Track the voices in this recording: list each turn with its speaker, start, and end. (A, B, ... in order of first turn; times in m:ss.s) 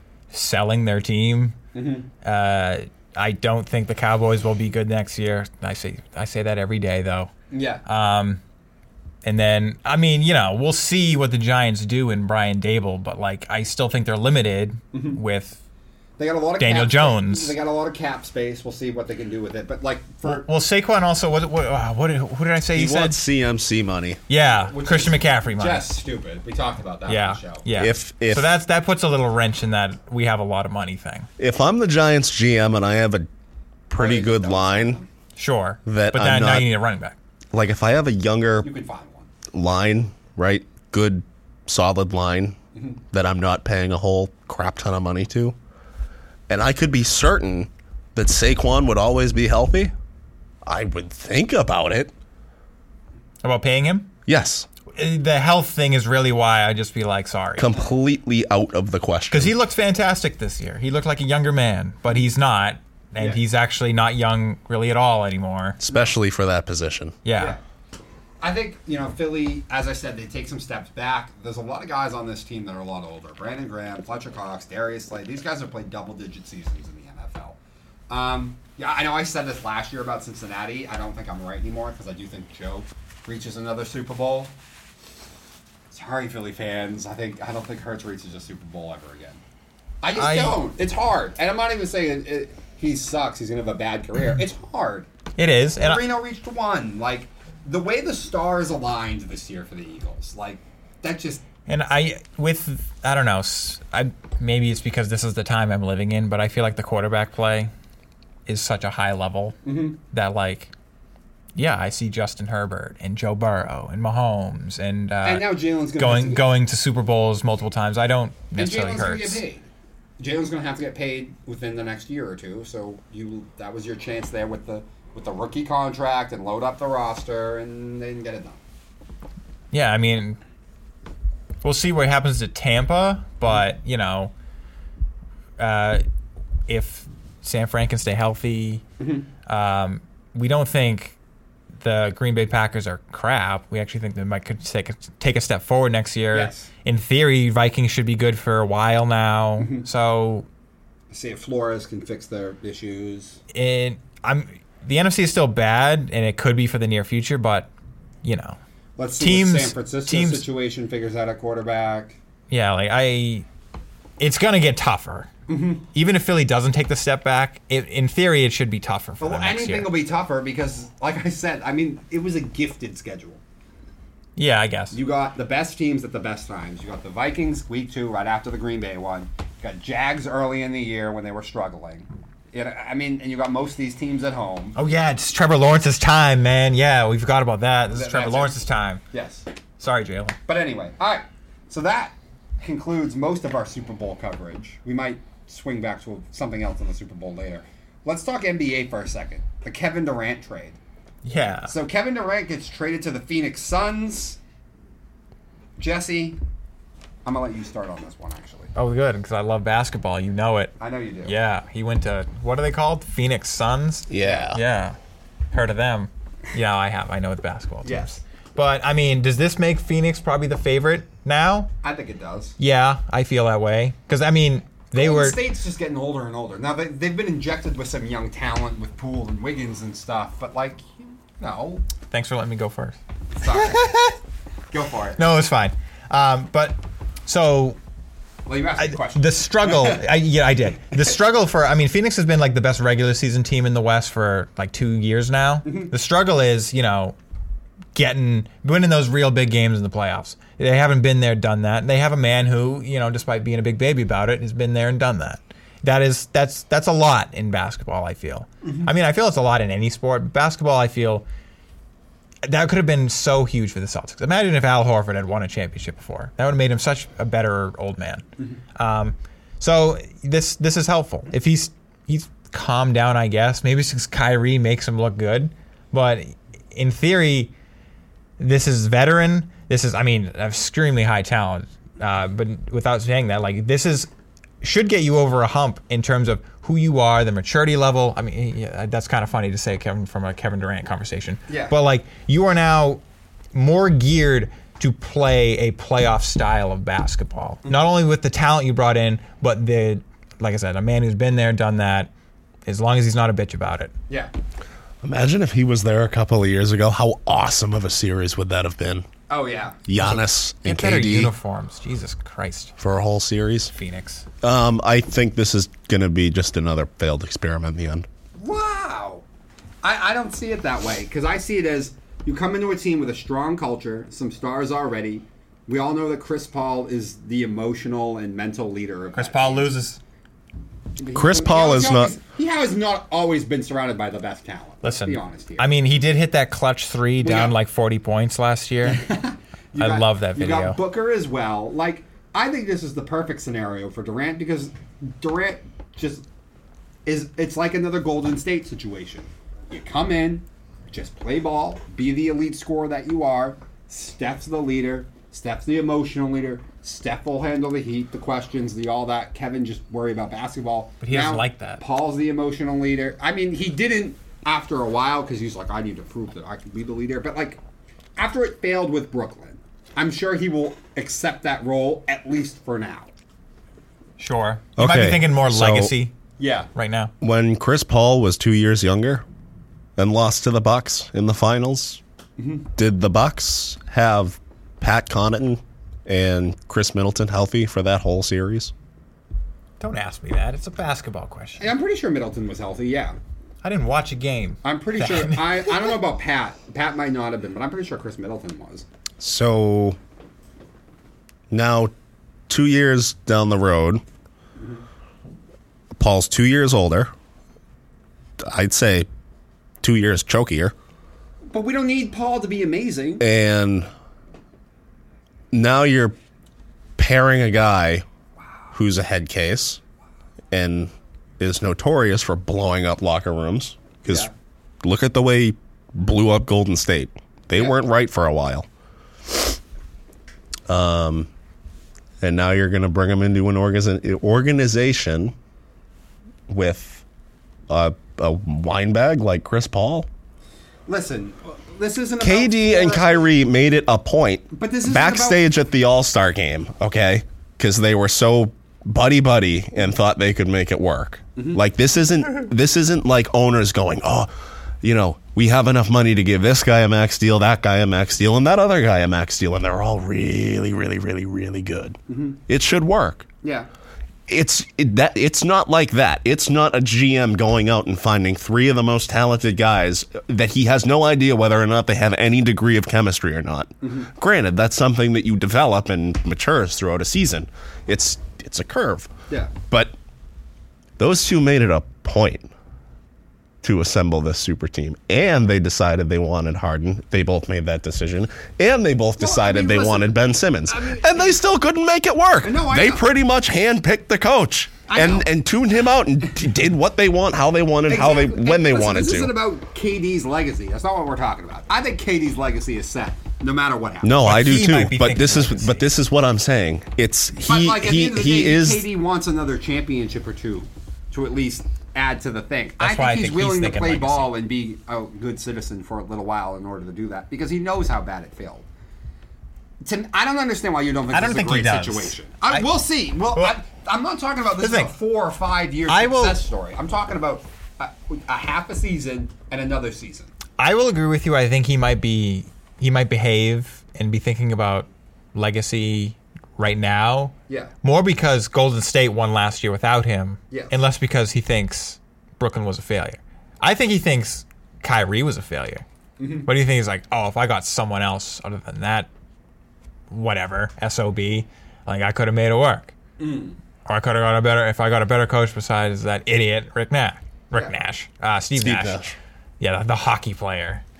0:00.3-0:01.6 A
0:01.7-0:02.1 B
0:02.2-0:07.3 A
0:07.5-0:07.8 B
0:07.8-0:08.4 A
0:09.2-0:15.6 A
0:14.9-0:15.2 B
0:16.2-0:20.5 B
0:16.6-0:17.5 A
0:20.2-0:23.2 A
0:22.7-0:24.2 C
0:24.3-0:25.9 A
0:24.6-0:27.6 B
0:27.1-0:31.3 A
0:27.7-0:28.5 C
0:31.4-0:33.3 C
0:33.9-0:35.0 C
0:33.9-0:35.1 B
0:35.4-0:37.2 A
0:35.8-0:36.7 C
0:37.5-0:38.7 C
0:38.6-0:39.3 B
0:39.5-0:42.6 C
0:43.1-0:45.6 C
0:46.5-0:49.9 C
0:50.6-0:52.1 C
0:53.4-0:54.1 A
0:54.2-0:54.7 C
0:54.9-0:57.8 A
0:57.6-0:59.5 C
0:59.3-1:05.8 A
1:05.8-1:07.2 C
1:05.9-1:06.1 B
1:07.2-1:07.6 A
1:08.4-1:17.6 B
1:18.1-1:24.5 B
1:25.9-1:29.4 B
1:30.0-1:35.1 B
1:30.1-1:30.6 A
1:35.4-1:36.0 A
1:35.8-1:41.4 B
1:41.7-1:47.7 A
1:48.4-1:49.6 A
1:49.6-1:50.0 B
1:50.1-1:50.7 A
1:51.5-1:55.4 A
1:55.2-1:56.4 B
1:56.0-1:59.4 A
1:58.6-1:59.6 B
2:00.2-2:08.6 B
2:09.7-2:10.4 A
2:11.6-2:14.3 A
2:15.6-2:16.0 A
2:16.7-2:18.8 A
2:19.0-2:19.3 B
2:19.4-2:21.2 A
2:21.8-2:30.4 A
2:26.3-2:26.7 B
2:29.6-2:29.8 B
2:31.1-2:33.4 B
2:33.5-2:37.7 A
2:38.2-2:38.6 A
2:39.0-2:42.2 B
2:39.2-2:40.4 A
2:42.5-2:43.4 A
2:44.2-2:45.3 A
2:45.5-2:45.8 B
2:45.9-2:49.9 A
2:49.2-2:53.4 B
2:54.4-2:55.0 A
2:54.9-3:04.8 B
3:04.7-3:09.0 A
3:07.9-3:08.5 B
3:09.1-3:09.4 B
3:09.8-3:10.4 A
3:10.5-3:20.8 B
3:21.2-3:21.7 A
3:21.7-3:24.4 B
3:25.8-3:26.4 B
3:27.2-3:28.7 B
3:28.7-3:35.0 A
3:30.8-3:31.3 B
3:34.1-3:34.6 C
3:34.2-3:34.5 B
3:35.5-3:41.7 A
3:37.8-3:38.2 B
3:41.8-3:42.6 B
3:42.6-3:45.4 A
3:44.9-3:51.8 B
3:52.1-3:54.2 A
3:53.4-3:53.9 B
3:54.7-3:55.2 B
3:55.2-3:57.8 A
3:58.4-4:00.0 B
3:58.8-4:07.2 A
4:05.6-4:05.9 B
4:07.9-4:21.2 A
4:22.4-4:37.5 A
4:38.4-4:44.1 A
4:44.6-4:53.0 A
4:51.5-4:51.7 B
4:53.5-5:02.1 A
5:02.7-5:03.9 A
5:05.0-5:09.0 C
5:09.3-5:09.8 B
5:09.9-5:11.3 C
5:10.0-5:12.7 A
5:12.8-5:13.7 C
5:13.7-5:14.2 A
5:14.4-5:18.1 C
5:18.4-5:19.2 B
5:19.8-5:29.7 B
5:29.1-5:30.0 A
5:31.0-5:35.7 B
5:31.1-5:32.1 C
5:34.8-5:39.0 A
5:37.2-5:37.5 B
5:38.8-5:46.2 B
5:39.8-5:40.8 A
5:47.0-6:07.6 B
6:01.0-6:01.8 A
6:08.2-6:13.1 B
6:14.2-6:16.1 A
6:14.8-6:15.9 C
6:16.4-6:16.7 B
6:16.7-6:17.1 A
6:17.2-6:19.2 C
6:20.0-6:22.0 C
6:22.4-6:22.7 B
6:22.8-6:28.7 C
6:29.8-6:31.7 A
6:31.6-6:33.2 B
6:33.6-6:35.9 A
6:34.6-6:38.8 B
6:39.2-6:40.0 C
6:41.5-6:41.9 C
6:42.5-6:44.0 C
6:44.6-6:44.8 B
6:46.0-6:47.1 C
6:48.4-6:49.1 C
6:49.8-6:50.7 C
6:51.5-6:53.2 B
6:53.2-6:53.9 C
6:55.5-6:56.1 C
6:57.0-6:58.0 C
6:58.7-6:59.8 C
7:00.5-7:04.3 C
7:04.0-7:04.3 B
7:04.8-7:08.6 C
7:09.3-7:09.6 C
7:10.7-7:11.3 C
7:12.2-7:15.3 C
7:16.5-7:17.0 C
7:17.7-7:20.1 C
7:20.9-7:23.3 B
7:22.2-7:34.3 C
7:24.5-7:25.4 B
7:31.4-7:31.6 B
7:34.8-7:43.3 C
7:42.1-7:42.4 B
7:43.4-7:43.7 B
7:44.3-7:59.1 C
7:53.8-7:54.1 B
7:59.7-7:59.9 C
8:01.0-8:02.5 C
8:03.6-8:19.3 C
8:09.2-8:11.4 B
8:12.4-8:13.0 B
8:14.9-8:15.3 B
8:17.9-8:24.2 B
8:24.0-8:28.8 C
8:24.2-8:25.9 A
8:27.4-8:38.6 B
8:32.8-8:34.3 A
8:39.8-8:50.3 B
8:41.1-8:42.7 A
8:44.6-8:44.9 A
8:45.9-8:46.4 A
8:50.6-9:05.8 A
9:06.2-9:06.5 B
9:06.4-9:09.1 A
9:10.1-9:12.9 A
9:13.2-9:13.6 B
9:13.8-9:19.0 A
9:18.6-9:19.2 C
9:19.6-9:20.8 A